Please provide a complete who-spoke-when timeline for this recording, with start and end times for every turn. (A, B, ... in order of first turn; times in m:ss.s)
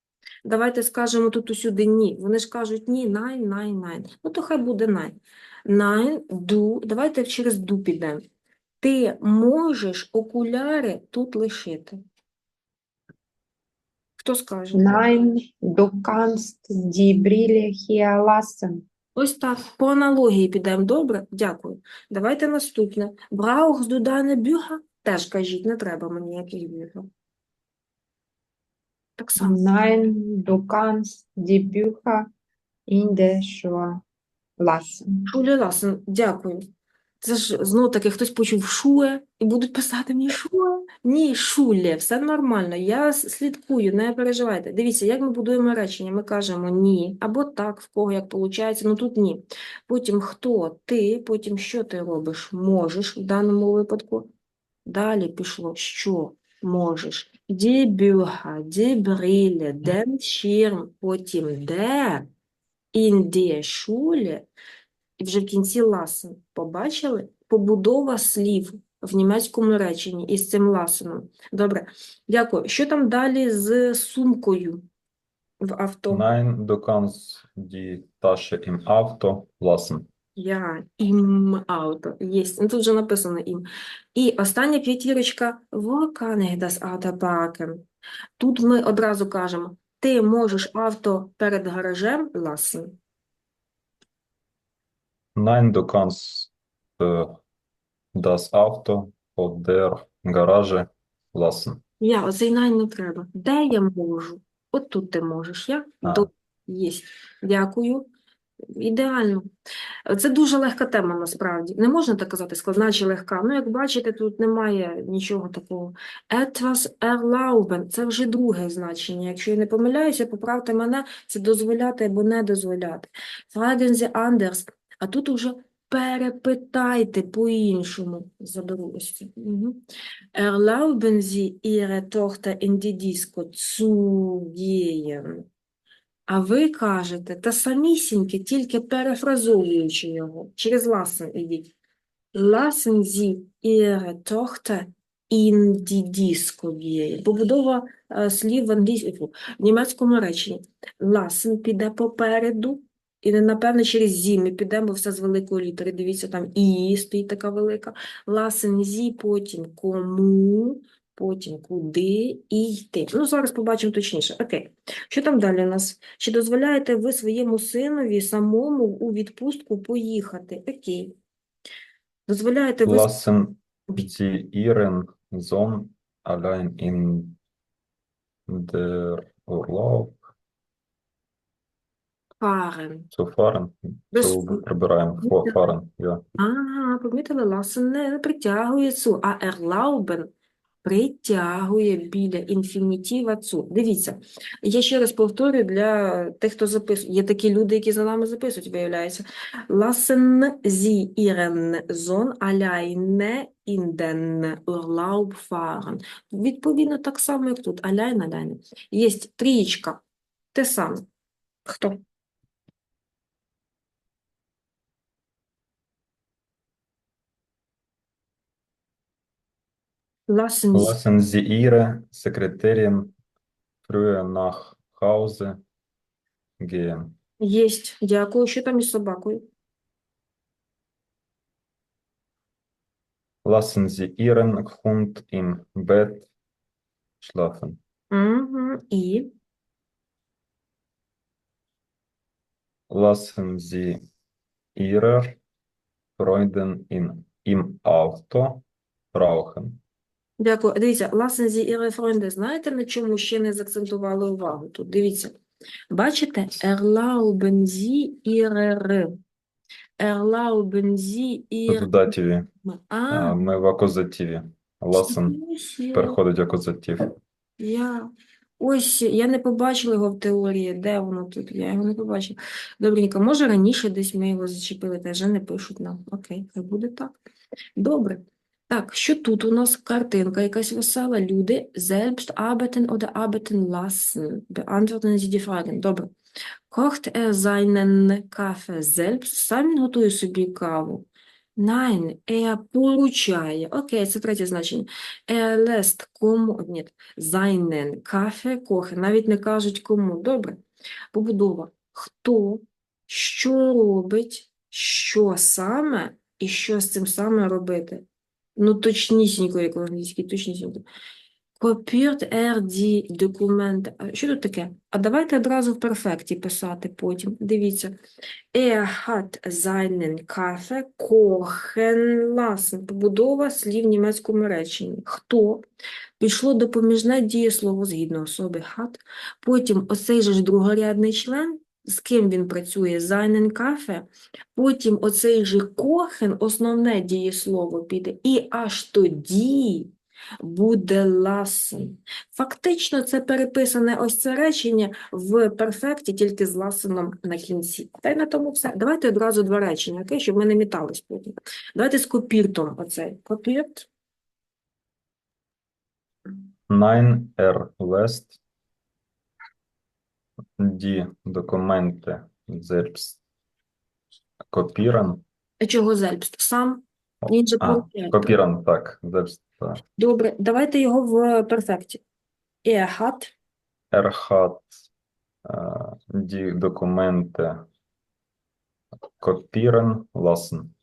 0:00.4-0:08.2 A
0:08.8-0:12.0 A
0:14.2-0:15.0 A
0:14.7-0:18.8 B
0:19.2-0:27.1 A
0:29.2-0:29.7 A
0:29.4-0:32.3 B
0:32.9-0:34.0 B
0:34.6-0:35.2 B
0:35.3-0:36.6 A
0:37.2-0:54.3 A
0:54.9-1:02.3 A
1:02.9-1:04.4 A
1:05.2-1:14.8 A
1:15.6-1:16.2 A
1:16.1-1:20.1 C
1:20.4-1:27.8 A
1:28.4-1:32.9 A
1:35.4-1:37.4 C
1:38.1-1:41.8 C
1:42.0-1:48.1 A
1:48.7-1:49.5 A
1:50.1-2:09.8 A
2:10.3-2:15.4 A
2:16.3-2:21.7 A
2:22.3-2:51.2 A
2:52.3-2:53.1 A
2:52.8-2:57.4 C
2:58.5-3:00.3 C
3:02.4-3:03.1 A
3:03.1-3:06.2 C
3:04.1-3:04.6 A
3:06.4-3:10.3 A
3:10.8-3:30.0 A
3:30.5-3:31.1 A
3:31.6-3:32.0 A
3:40.3-3:41.0 A
3:40.7-3:43.2 C
3:43.8-3:45.6 C
3:46.6-3:47.2 C
3:47.4-3:49.5 A
3:53.4-3:56.3 C
3:57.2-3:57.8 C
3:58.1-3:59.3 A
4:02.9-4:04.0 C
4:04.8-4:05.4 C
4:06.2-4:09.8 C
4:10.4-4:15.4 A
4:15.9-4:19.2 A
4:20.0-4:22.1 A
4:21.7-4:22.5 C
4:22.6-4:23.4 A
4:23.1-4:25.4 C
4:25.0-4:26.2 A
4:25.9-4:27.1 C
4:27.6-4:37.1 A
4:37.8-4:46.1 A
4:46.7-5:00.6 A
5:01.1-5:08.0 A
5:08.6-5:10.8 A
5:11.6-5:18.0 A
5:18.5-5:25.6 A
5:26.2-5:53.9 A
5:56.7-5:58.4 C
6:00.6-6:03.2 C
6:04.5-6:05.2 C
6:05.6-6:08.4 A
6:07.2-6:09.8 C
6:10.0-6:12.0 A
6:12.6-6:13.3 A
6:13.9-6:14.7 C
6:15.4-6:17.7 C
6:19.2-6:20.7 C